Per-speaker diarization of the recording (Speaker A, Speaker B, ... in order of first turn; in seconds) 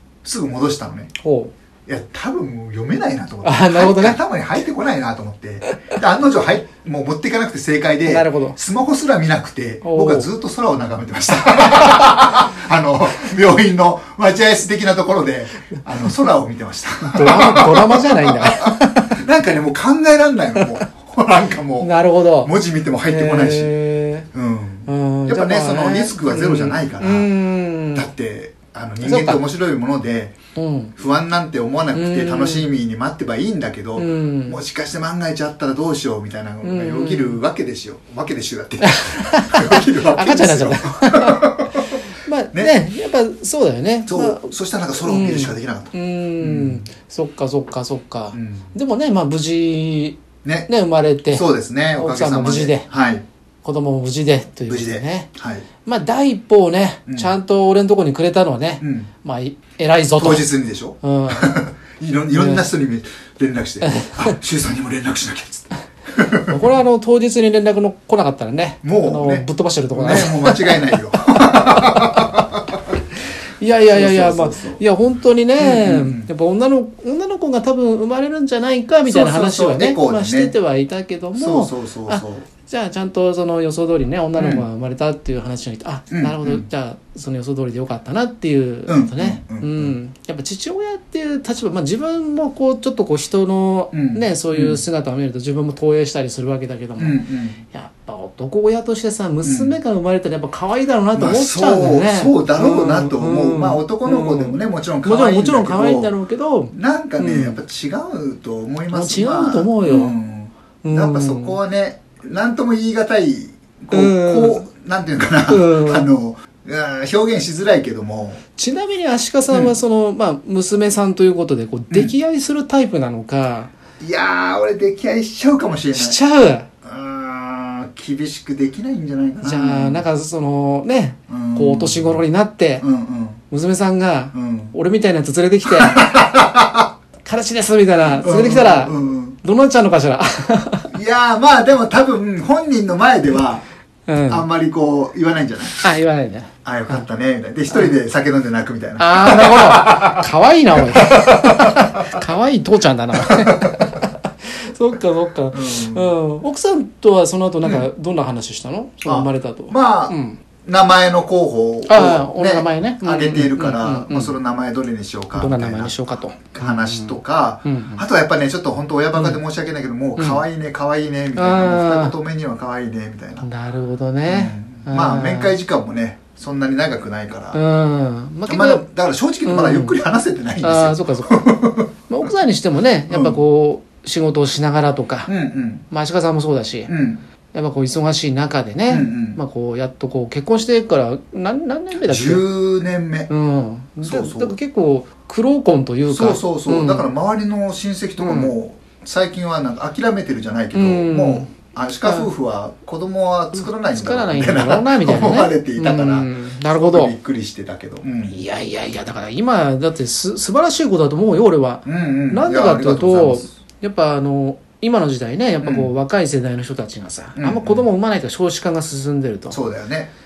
Speaker A: 0.2-1.1, 1.9-23.7, 24.3-27.3, 27.9-30.4, 31.0-42.0, 44.1-46.9, 48.3-48.7, 50.4-50.7, 51.3-53.2, 54.7-55.6, 57.1-57.3, 58.8-59.1, 60.2-66.7, 68.8-72.6, 73.9-74.8, 75.6-76.3, 79.1-80.5, 81.3-82.4, 84.4-84.7, 86.1-86.7, 88.9-90.0, 93.9-94.8, 97.0-97.6, 99.4-99.8, 101.1-106.1, 106.7-118.4, 119.5-119.8, 124.0-126.2, 126.8-130.0, 131.3-132.2, 132.8-133.4, 134.3-134.7, 135.7-136.9, 138.2-139.4, 140.9-143.6, 144.3-145.8, 146.6-152.0, 153.2-153.8, 155.5-156.1, 159.0-173.5, 174.3-177.6, 178.5-181.9, 183.1-183.4, 185.3-185.8, 186.9-187.2, 188.9-189.4, 192.1-193.3, 194.0-194.6, 196.1-208.4, 211.8-213.5, 215.6-215.9, 217.3-217.8, 219.5-220.1
Speaker B: 1.2-1.5, 3.4-4.2, 8.1-8.6, 9.8-10.3, 17.1-19.1, 21.8-22.5, 23.1-24.3, 24.9-28.1, 29.0-29.4, 30.6-30.9, 31.9-32.7, 34.0-34.6, 36.6-37.4, 38.8-52.9, 53.6-55.3, 55.8-60.5, 61.0-61.6, 62.3-62.7, 63.8-64.3, 66.5-70.9, 71.5-72.2, 73.6-107.6, 108.9-110.1, 110.8-111.6, 113.9-114.7, 115.5-116.1, 118.6-123.7, 125.9-126.7, 129.4-132.8, 133.5-136.1, 137.2-140.9, 144.1-144.4, 145.8-147.0, 149.0-160.4, 161.9-164.3, 165.3-168.0, 169.1-169.4, 170.2-170.4, 171.3-172.2, 173.4-175.5, 177.5-178.8, 179.4-180.0, 180.6-185.3, 185.9-186.9, 187.5-192.4, 193.3-197.1, 198.2-198.5, 200.7-201.5, 202.0-202.3, 203.5-207.1, 208.3-219.6